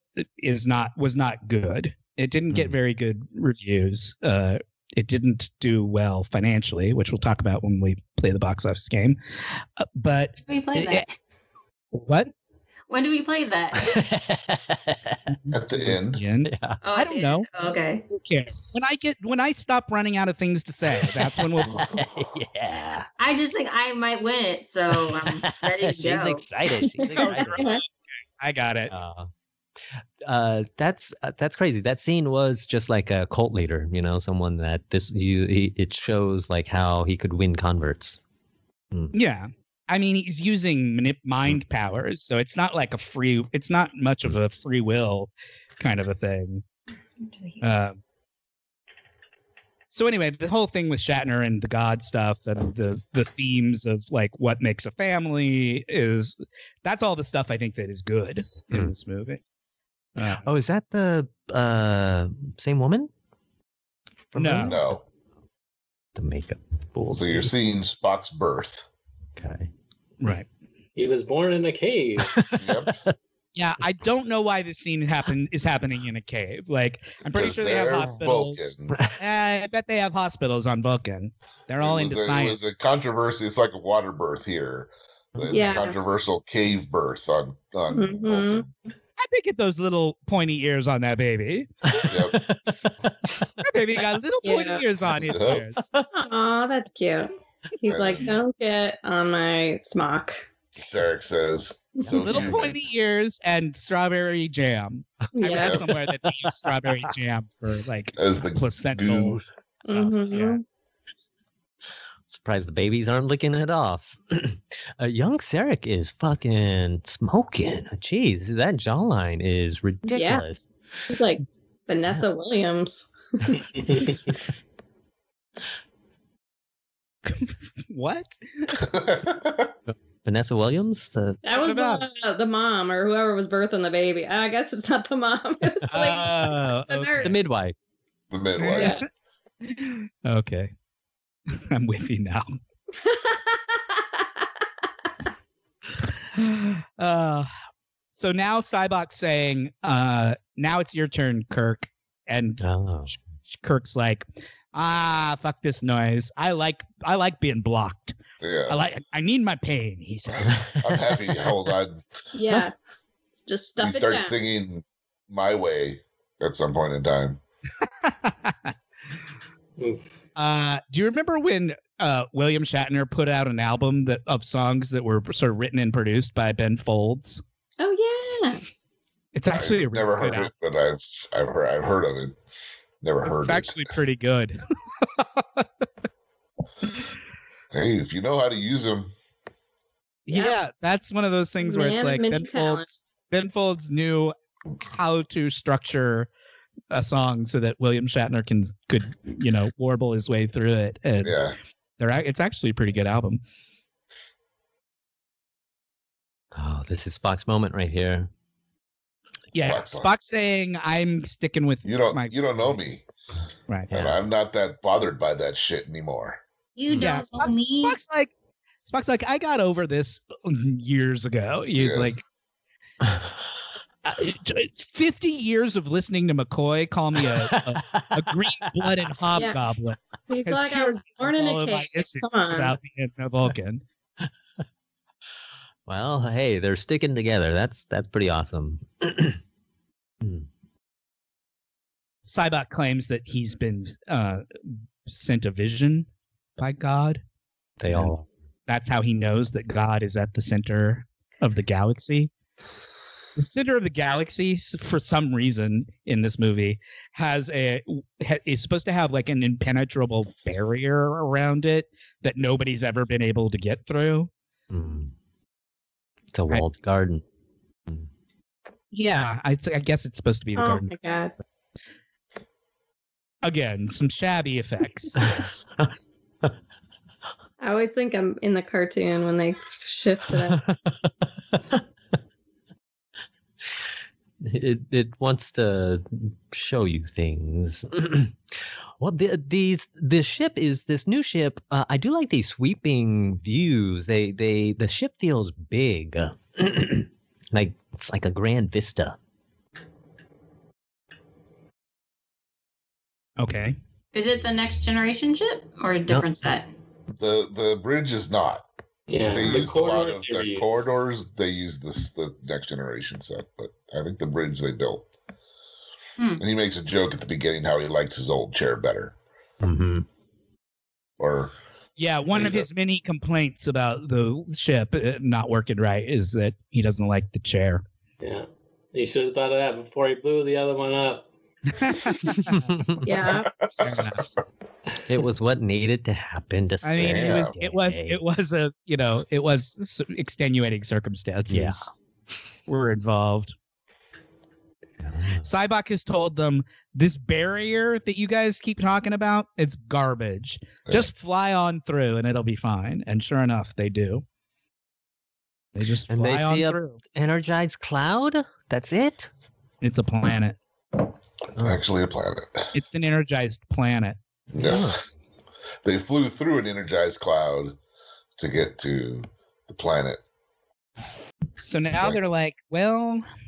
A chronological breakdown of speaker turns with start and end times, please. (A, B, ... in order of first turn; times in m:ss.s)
0:00.2-0:09.2 A
0:09.8-0:11.1 A
0:10.4-0:11.1 B
0:11.9-0:12.3 A
0:12.9-0:14.0 B
0:13.8-0:15.3 C
0:15.3-0:17.5 A
0:15.5-0:16.2 D
0:16.4-0:16.8 C
0:16.8-0:18.0 B
0:18.1-0:21.9 A
0:21.0-0:23.1 C
0:21.9-0:22.2 D
0:23.2-0:26.4 B
0:24.9-0:27.7 C
0:27.1-0:27.8 A
0:27.2-0:27.8 E
0:28.4-0:28.9 A
0:28.9-0:29.3 C
0:30.2-0:38.2 C
0:39.1-0:46.6 A
0:47.6-0:48.0 A
0:49.9-0:59.4 A
1:00.2-1:00.5 A
1:00.4-1:03.1 C
1:04.3-1:05.0 C
1:04.4-1:04.8 A
1:04.7-1:05.0 D
1:06.2-1:07.5 C
1:07.1-1:08.9 D
1:09.4-1:09.7 C
1:10.2-1:10.5 A
1:11.0-1:12.3 F
1:12.3-1:13.2 C
1:12.6-1:13.0 D
1:13.6-1:22.7 A
1:17.2-1:19.0 D
1:21.8-1:28.7 D
1:25.5-1:26.0 E
1:27.9-1:28.6 E
1:29.2-1:32.1 A
1:31.9-1:33.5 C
1:32.0-1:32.4 D
1:33.6-1:35.9 A
1:34.4-1:34.8 E
1:35.1-1:35.6 D
1:36.1-1:40.5 E
1:37.9-1:38.3 D
1:40.7-1:42.8 D
1:42.1-1:50.6 A
1:45.4-1:45.8 E
1:45.6-1:45.9 D
1:48.2-1:49.5 D
1:49.9-1:50.6 E
1:52.3-2:00.7 C
2:00.1-2:00.4 E
2:01.1-2:04.1 E
2:03.7-2:04.2 F
2:07.3-2:08.8 A
2:08.8-2:09.7 D
2:09.9-2:11.4 C
2:11.4-2:17.3 E
2:11.5-2:12.0 A
2:15.9-2:17.4 A
2:17.2-2:17.8 C
2:18.3-2:19.0 D
2:18.6-2:19.0 A
2:18.8-2:19.0 E
2:19.6-2:20.7 A
2:21.5-2:22.5 A
2:23.0-2:24.2 E
2:26.3-2:27.5 A
2:28.1-2:38.2 A
2:32.6-2:33.1 C
2:38.4-2:38.8 D
2:38.7-2:40.7 A
2:40.3-2:42.0 D
2:42.3-2:44.4 E
2:43.8-2:47.4 D
2:48.0-2:48.7 A
2:49.8-2:50.0 F
2:50.4-2:57.4 A
2:57.8-2:58.6 E
2:59.3-3:00.5 A
2:59.5-3:02.4 D
3:03.0-3:03.8 D
3:03.2-3:05.7 A
3:07.7-3:09.1 D
3:10.3-3:16.3 A
3:11.6-3:12.9 E
3:16.9-3:21.4 A
3:21.2-3:21.6 D
3:22.0-3:23.4 A
3:26.6-3:28.3 C
3:29.5-3:32.8 A
3:29.6-3:30.1 D
3:31.8-3:33.0 D
3:33.7-3:34.1 A
3:33.9-3:36.4 D
3:36.8-3:38.0 B
3:36.9-3:37.2 C
3:37.0-3:38.3 A
3:38.9-3:42.2 A
3:41.8-3:42.1 D
3:44.0-3:53.8 A
3:47.2-3:48.9 C
3:49.4-3:49.6 E
3:50.3-3:52.8 E
3:55.9-3:59.4 C
4:02.3-4:07.2 A
4:07.8-4:08.3 C
4:07.9-4:08.2 A
4:08.7-4:12.3 A
4:13.4-4:24.3 A
4:24.7-4:25.1 C
4:26.3-4:27.2 C
4:28.9-4:30.9 A
4:30.6-4:31.3 E
4:33.4-4:35.4 A
4:35.2-4:35.9 C
4:37.6-4:40.7 E
4:40.4-4:41.8 C
4:44.4-4:48.4 C
4:49.0-4:59.2 C
5:03.4-5:03.8 A
5:04.1-5:06.7 B
5:07.2-5:08.7 D
5:09.1-5:10.9 F
5:09.2-5:15.1 D
5:16.2-5:16.4 B
5:16.4-5:19.2 D
5:19.6-5:20.1 C
5:21.2-5:21.5 D
5:22.0-5:27.8 A
5:22.3-5:22.7 D
5:28.2-5:31.3 F
5:31.8-5:33.0 A
5:32.5-5:33.1 C
5:33.0-5:33.5 E
5:33.7-5:34.0 D
5:33.8-5:34.2 A
5:35.1-5:38.2 C
5:36.8-5:41.9 A
5:37.0-5:37.5 D
5:41.5-5:41.9 C
5:42.7-5:43.6 A
5:45.0-5:45.5 C
5:45.4-5:54.2 A
5:55.8-5:57.0 A
5:56.1-5:59.3 C
5:59.8-6:00.6 A
6:01.6-6:02.7 D
6:02.7-6:04.2 A
6:04.5-6:05.0 D
6:04.6-6:05.0 C
6:05.8-6:07.8 D
6:08.4-6:10.2 D
6:11.6-6:13.2 A